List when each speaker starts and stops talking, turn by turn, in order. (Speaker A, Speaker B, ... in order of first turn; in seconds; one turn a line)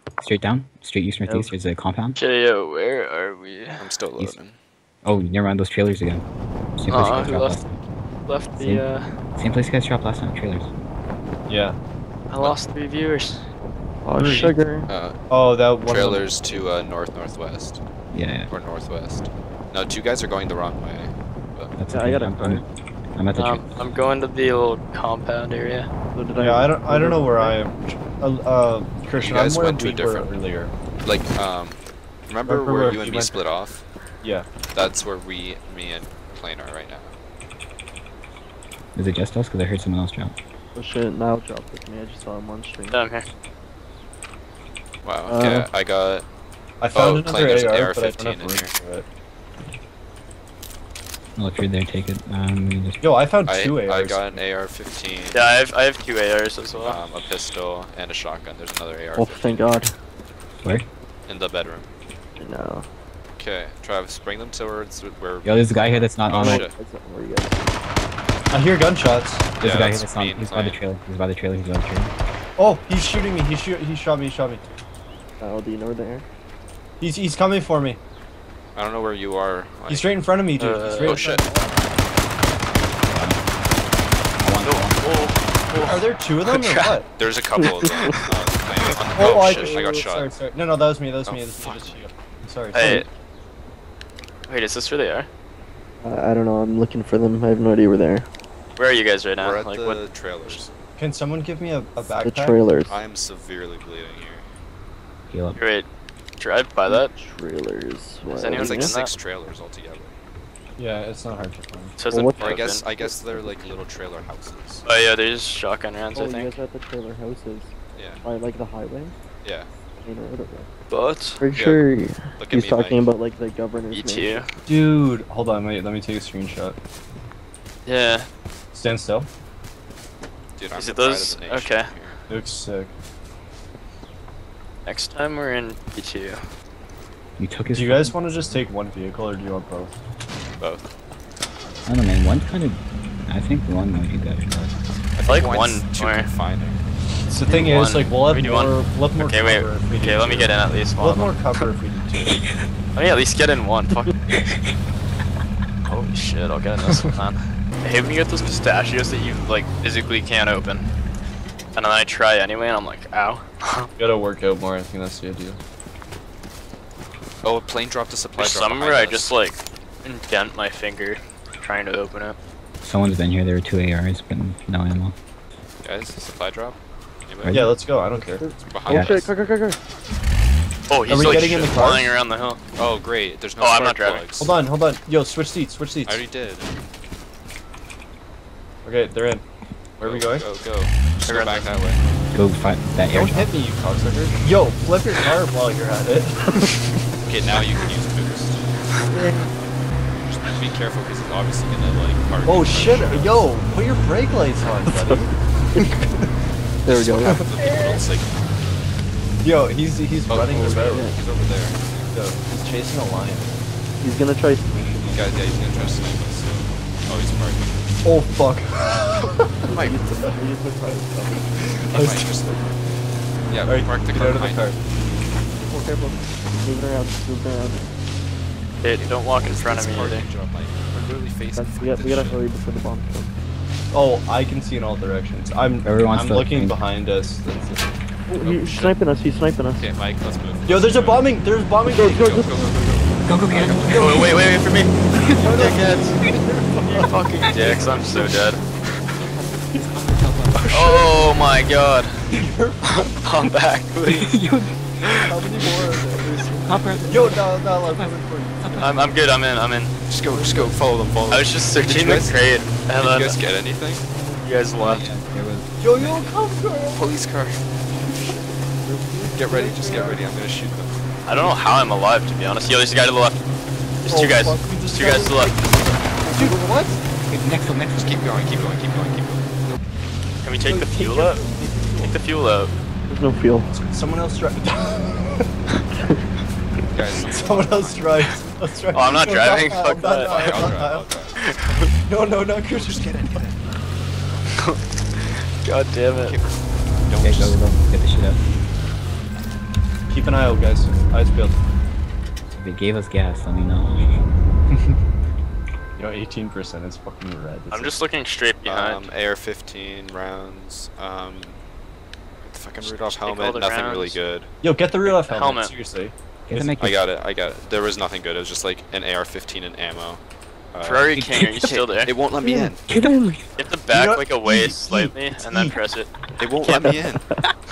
Speaker A: 0.2-2.2
Speaker B: 1.3-1.5
Speaker C: 2.1-3.8
Speaker D: 3.8-4.6
Speaker A: 5.0-6.2
Speaker A: 6.8-7.8
Speaker C: 6.9-7.6
Speaker C: 8.2-9.1
Speaker A: 9.3-10.7
Speaker E: 11.5-11.8
Speaker C: 12.3-13.4
Speaker D: 12.4-12.6
Speaker B: 14.0-14.9
Speaker E: 14.2-14.6
Speaker D: 14.9-15.2
Speaker E: 15.3-16.3
Speaker D: 15.8-17.8
Speaker A: 18.1-18.5
Speaker D: 18.5-21.7
Speaker A: 21.8-22.6
Speaker B: 21.9-22.6
Speaker A: 23.1-23.8
Speaker C: 23.4-25.9
Speaker B: 26.1-27.6
Speaker E: 26.4-30.7
Speaker D: 29.1-30.3
Speaker D: 31.0-33.8
Speaker E: 32.5-33.4
Speaker E: 34.2-34.5
Speaker D: 34.6-37.1
Speaker A: 39.0-40.3
Speaker B: 40.7-43.0
Speaker C: 42.9-43.2
Speaker D: 45.0-46.2
Speaker B: 45.2-45.7
Speaker E: 46.8-49.0
Speaker D: 46.9-48.7
Speaker A: 51.4-53.0
Speaker E: 53.0-54.4
Speaker D: 53.5-55.5
Speaker C: 55.3-57.0
Speaker D: 56.7-59.9
Speaker B: 59.1-59.9
Speaker D: 61.3-61.9
Speaker B: 62.4-62.9
Speaker D: 63.4-66.7
Speaker A: 65.4-66.7
Speaker B: 66.3-67.8
Speaker E: 68.5-69.5
Speaker D: 69.6-70.8
Speaker A: 69.6-72.1
Speaker E: 72.6-74.6
Speaker B: 75.4-76.2
Speaker E: 77.0-78.0
Speaker D: 78.7-80.2
Speaker E: 79.9-81.8
Speaker C: 80.5-81.3
Speaker D: 81.0-81.4
Speaker A: 83.1-83.4
Speaker A: 84.4-85.3
Speaker C: 84.6-87.0
Speaker E: 85.8-87.1
Speaker D: 87.2-90.3
Speaker B: 87.6-88.2
Speaker C: 87.8-88.2
Speaker E: 89.1-93.0
Speaker B: 89.5-89.8
Speaker D: 91.2-92.0
Speaker C: 92.7-93.1
Speaker C: 94.5-95.3
Speaker B: 96.0-98.3
Speaker C: 98.8-100.6
Speaker D: 99.3-100.7
Speaker E: 101.0-102.6
Speaker B: 102.2-103.0
Speaker D: 102.9-104.5
Speaker A: 105.3-105.6
Speaker C: 105.5-105.9
Speaker C: 106.4-107.1
Speaker B: 106.9-109.0
Speaker C: 108.2-109.1
Speaker D: 108.5-110.1
Speaker E: 110.8-112.0
Speaker C: 112.0-112.9
Speaker B: 112.1-113.8
Speaker D: 112.3-114.8
Speaker C: 114.8-116.6
Speaker B: 116.1-119.1
Speaker D: 118.0-118.2
Speaker D: 119.4-119.7
Speaker B: 120.0-120.7
Speaker C: 120.9-121.4
Speaker B: 121.4-124.4
Speaker D: 121.5-121.8
Speaker D: 122.4-123.1
Speaker C: 123.9-124.5
Speaker E: 124.7-126.8
Speaker C: 127.8-128.3
Speaker E: 128.7-129.3
Speaker D: 130.6-132.2
Speaker C: 130.7-131.9
Speaker E: 132.3-132.9
Speaker C: 134.8-136.4
Speaker A: 137.4-138.2
Speaker E: 137.7-140.0
Speaker D: 140.6-140.9
Speaker A: 141.8-144.8
Speaker D: 145.1-146.8
Speaker C: 145.2-146.3
Speaker E: 147.2-152.4
Speaker C: 147.4-151.6
Speaker C: 152.9-154.6
Speaker C: 155.8-160.9
Speaker E: 156.9-157.1
Speaker C: 161.7-163.9
Speaker E: 164.0-165.6
Speaker D: 167.4-169.4
Speaker C: 168.3-172.3
Speaker A: 172.8-175.1
Speaker D: 175.8-177.6
Speaker A: 177.4-177.7
Speaker E: 177.5-178.4
Speaker B: 178.2-179.8
Speaker D: 178.6-179.5
Speaker A: 178.9-179.2
Speaker C: 180.9-182.6
Speaker E: 181.1-182.1
Speaker D: 181.1-181.7
Speaker D: 182.8-184.6
Speaker C: 183.6-184.5
Speaker E: 184.4-186.2
Speaker D: 186.1-186.8
Speaker E: 188.8-189.4
Speaker E: 190.0-190.5
Speaker D: 190.0-192.0
Speaker C: 191.2-191.9
Speaker A: 192.3-193.5
Speaker E: 193.1-196.7
Speaker B: 196.5-197.0
Speaker D: 197.2-199.2
Speaker E: 199.1-199.5
Speaker D: 200.2-203.5
Speaker E: 202.4-206.3
Speaker D: 206.8-208.4
Speaker B: 206.8-208.0
Speaker E: 209.4-211.1
Speaker D: 210.3-212.2
Speaker B: 210.5-211.2
Speaker E: 212.1-213.5
Speaker B: 214.0-214.8
Speaker D: 214.7-217.8
Speaker E: 218.0-219.6
Speaker B: 219.7-221.7
Speaker D: 219.7-220.1
Speaker D: 221.7-222.8
Speaker E: 221.9-222.3
Speaker D: 223.5-224.8
Speaker E: 223.6-224.8
Speaker B: 225.7-227.9
Speaker C: 228.8-230.3
Speaker D: 228.8-232.4
Speaker B: 231.6-233.3
Speaker E: 233.9-237.5
Speaker A: 235.8-236.8
Speaker D: 237.5-237.8
Speaker B: 238.3-239.9
Speaker D: 238.4-238.9
Speaker D: 239.8-241.3
Speaker E: 240.7-242.3
Speaker B: 241.9-242.7
Speaker D: 242.1-244.3
Speaker A: 243.2-244.3
Speaker C: 244.0-246.2
Speaker E: 245.4-247.1
Speaker C: 246.8-248.6
Speaker A: 247.4-248.4
Speaker A: 249.5-250.7
Speaker D: 250.5-251.5
Speaker C: 250.7-252.2
Speaker E: 252.3-253.2
Speaker C: 252.9-254.3
Speaker A: 254.1-254.8
Speaker D: 255.0-255.3
Speaker E: 255.2-259.0
Speaker A: 256.6-258.9
Speaker C: 258.8-259.9
Speaker D: 260.1-264.1
Speaker B: 260.3-260.8
Speaker C: 261.3-263.4
Speaker C: 264.4-265.0
Speaker D: 264.8-265.1
Speaker A: 264.9-265.8
Speaker E: 265.8-267.1
Speaker D: 265.9-266.3
Speaker D: 266.9-268.5
Speaker B: 268.8-270.2
Speaker D: 269.3-271.1
Speaker E: 269.5-270.2
Speaker C: 271.2-273.4
Speaker C: 274.0-275.6
Speaker E: 274.1-277.0
Speaker B: 276.2-277.0
Speaker A: 277.3-278.2
Speaker D: 277.9-279.7
Speaker C: 280.4-281.4
Speaker E: 280.6-282.1
Speaker C: 282.0-282.7
Speaker B: 283.1-283.7
Speaker E: 283.7-285.5
Speaker B: 285.9-286.2
Speaker D: 286.9-288.3
Speaker E: 287.2-291.2
Speaker C: 288.9-290.7
Speaker D: 289.4-291.4
Speaker C: 291.4-291.9
Speaker E: 292.1-293.4
Speaker D: 292.7-293.7
Speaker C: 295.6-296.4
Speaker D: 296.1-297.6
Speaker A: 297.2-298.4
Speaker E: 300.1-301.6
Speaker A: 302.5-304.0
Speaker E: 304.7-305.0
Speaker E: 306.0-307.9
Speaker C: 307.7-309.1
Speaker D: 308.6-311.6
Speaker D: 312.4-314.5
Speaker C: 312.8-314.2
Speaker E: 314.6-316.9
Speaker C: 315.0-315.7
Speaker A: 316.5-317.0
Speaker D: 316.8-320.2
Speaker D: 320.7-322.8
Speaker C: 320.8-322.1
Speaker A: 321.1-321.8
Speaker B: 322.4-323.4
Speaker A: 322.9-323.4
Speaker C: 323.6-326.9
Speaker E: 323.9-325.8
Speaker D: 326.4-327.2
Speaker B: 326.9-327.2